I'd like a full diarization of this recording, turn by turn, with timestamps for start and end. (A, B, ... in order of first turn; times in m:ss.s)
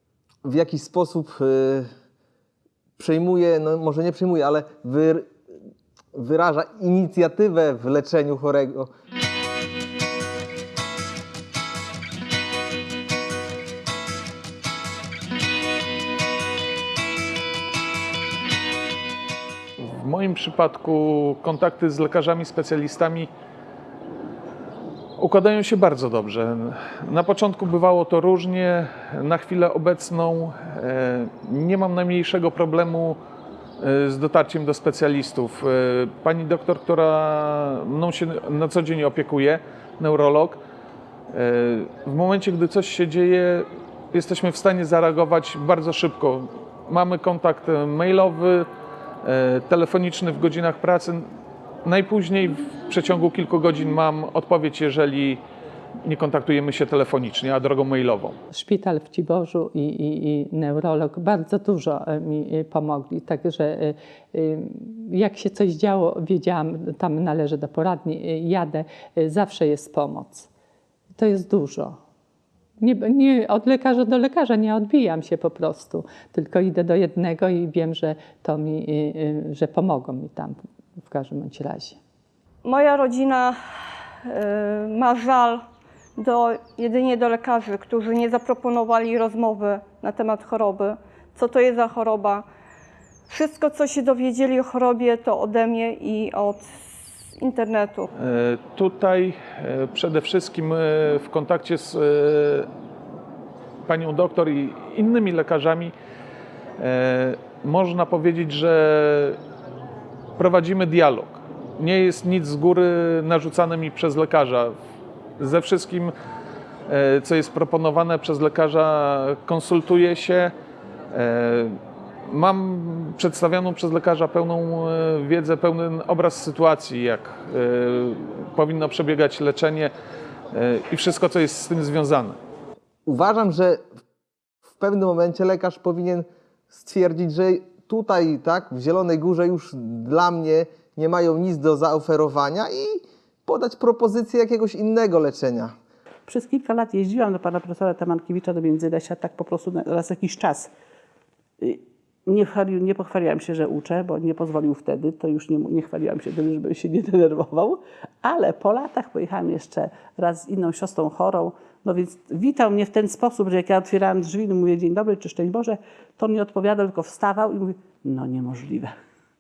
0:00.4-0:01.9 A
0:03.0-0:05.3 A
0:06.1-0:08.9 A
0:19.8-0:23.3 B
0:25.2-0:33.2 B
0:33.8-0:40.6 B
0:41.3-0:48.7 B
0:49.2-0:51.2 B
0:51.8-0:55.4 B
0:56.0-0:58.4 B
0:58.5-1:10.5 C
1:11.2-1:12.0 C
1:12.8-1:22.0 C
1:22.6-1:23.6 D
1:24.3-1:25.6 D
1:26.2-1:32.4 D
1:33.3-1:36.7 D
1:37.4-1:38.1 D
1:38.2-1:42.7 B
1:43.9-1:45.9 B
1:46.8-1:49.4 B
1:50.4-1:54.8 B
1:55.4-1:56.1 B
1:56.9-2:00.5 B
2:01.1-2:01.8 B
2:02.3-2:09.9 B
2:10.5-2:12.4 B
2:13.1-2:13.8 A
2:14.8-2:25.7 A
2:26.3-2:30.7 E
2:31.6-2:48.9 E